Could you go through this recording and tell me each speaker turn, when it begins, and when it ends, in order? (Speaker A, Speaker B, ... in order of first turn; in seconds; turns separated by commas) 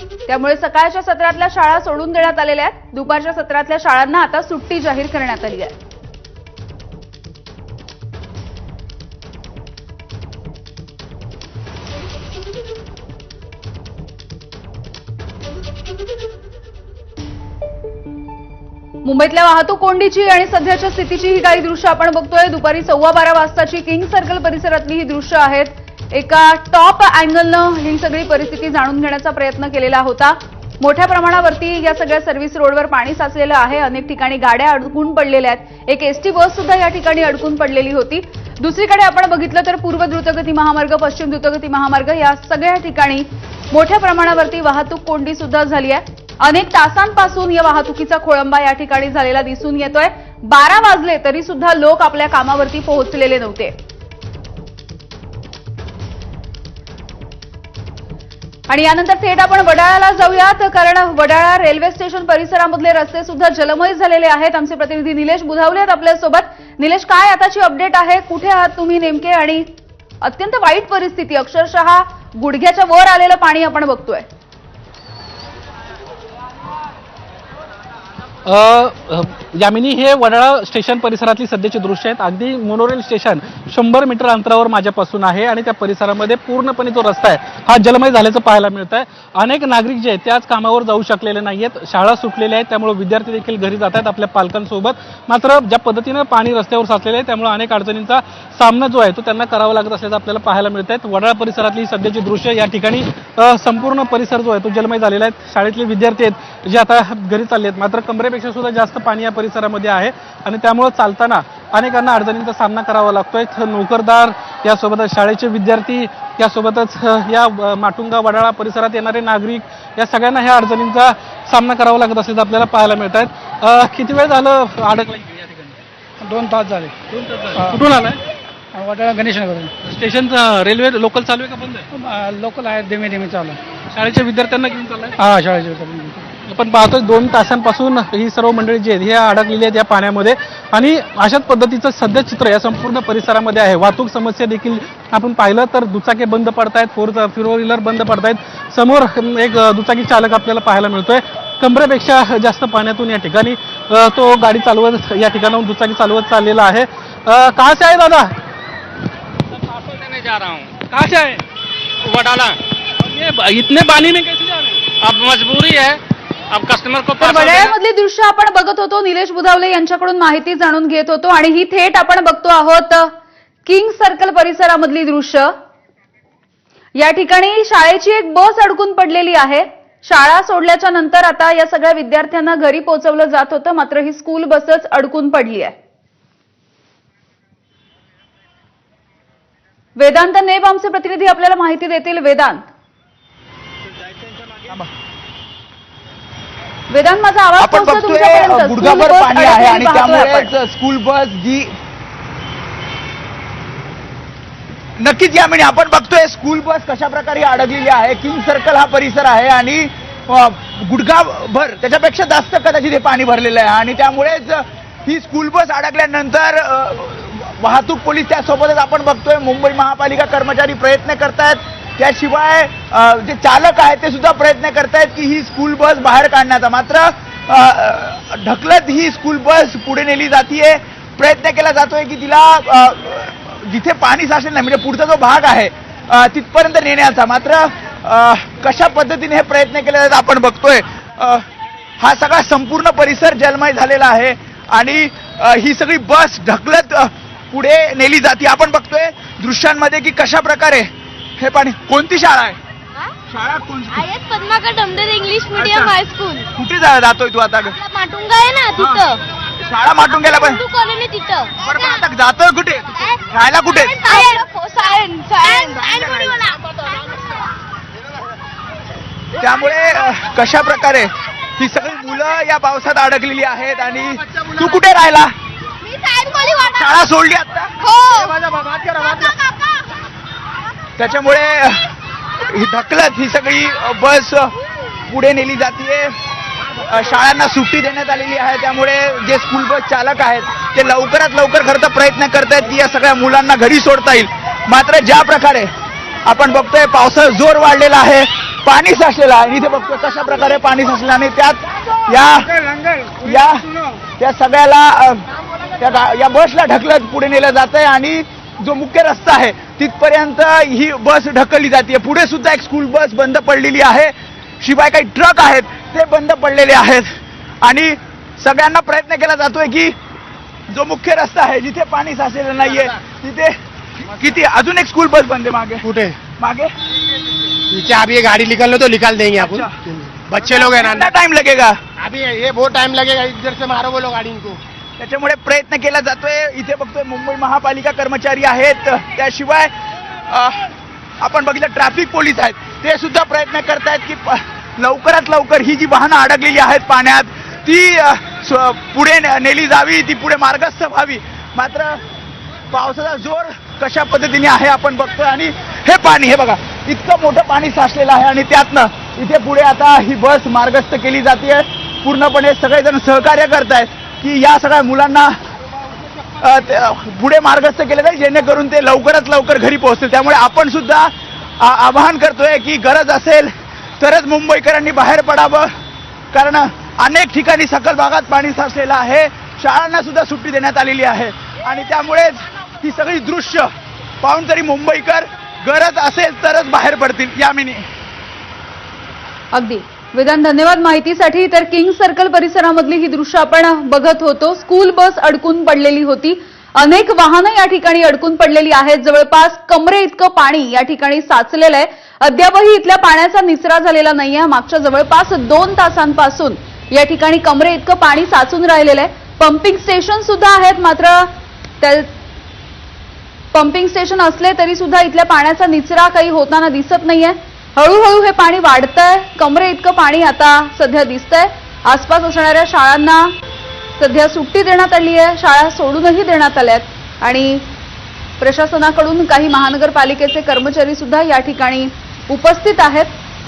Speaker A: 0.3-5.7, Speaker A: 19.0-53.7, Speaker A: 58.7-69.7, Speaker A: 70.2-74.2, Speaker B: 78.5-125.8, Speaker C: 126.2-127.0, Speaker B: 127.1-128.2, Speaker C: 128.7-129.7, Speaker B: 129.8-131.9, Speaker C: 131.9-133.6, Speaker B: 133.9-135.7, Speaker C: 135.5-136.3, Speaker B: 136.3-158.3, Speaker D: 159.6-160.8, Speaker B: 160.9-161.4, Speaker D: 162.0-162.6, Speaker B: 163.0-164.9, Speaker D: 165.0-167.7, Speaker A: 167.2-173.1, Speaker A: 173.7-175.5, Speaker A: 177.0-185.7, Speaker A: 190.0-192.6, Speaker E: 194.4-194.8, Speaker A: 196.9-200.5, Speaker E: 197.6-201.7, Speaker E: 205.0-241.4, Speaker E: 242.0-250.9, Speaker E: 251.4-252.6, Speaker E: 253.3-254.0, Speaker F: 253.9-256.5, Speaker E: 255.6-255.9, Speaker E: 256.5-257.8, Speaker F: 257.8-259.2, Speaker E: 258.8-259.1, Speaker E: 259.6-260.6, Speaker F: 260.1-261.9, Speaker E: 261.6-264.3, Speaker F: 263.7-267.0, Speaker E: 265.4-266.4, Speaker E: 269.4-275.3, Speaker F: 275.8-276.9, Speaker E: 276.6-277.7, Speaker F: 277.8-279.8, Speaker G: 278.4-279.1, Speaker E: 281.0-281.9, Speaker E: 282.4-284.5, Speaker E: 285.1-286.1, Speaker E: 286.8-295.7, Speaker E: 296.2-302.6, Speaker E: 303.1-317.1, Speaker E: 317.6-319.9, Speaker E: 320.7-323.6, Speaker E: 324.1-325.9, Speaker G: 325.8-326.2, Speaker E: 326.4-326.7, Speaker G: 327.7-331.1, Speaker E: 329.4-329.7, Speaker E: 330.4-331.8, Speaker G: 332.0-334.6, Speaker E: 335.0-339.7, Speaker E: 340.3-340.6, Speaker E: 341.2-352.0, Speaker E: 352.7-365.3, Speaker E: 366.4-375.7, Speaker E: 376.3-383.7, Speaker E: 384.2-387.9, Speaker A: 389.5-412.1, Speaker A: 413.5-423.3, Speaker A: 424.0-427.6, Speaker A: 428.4-433.1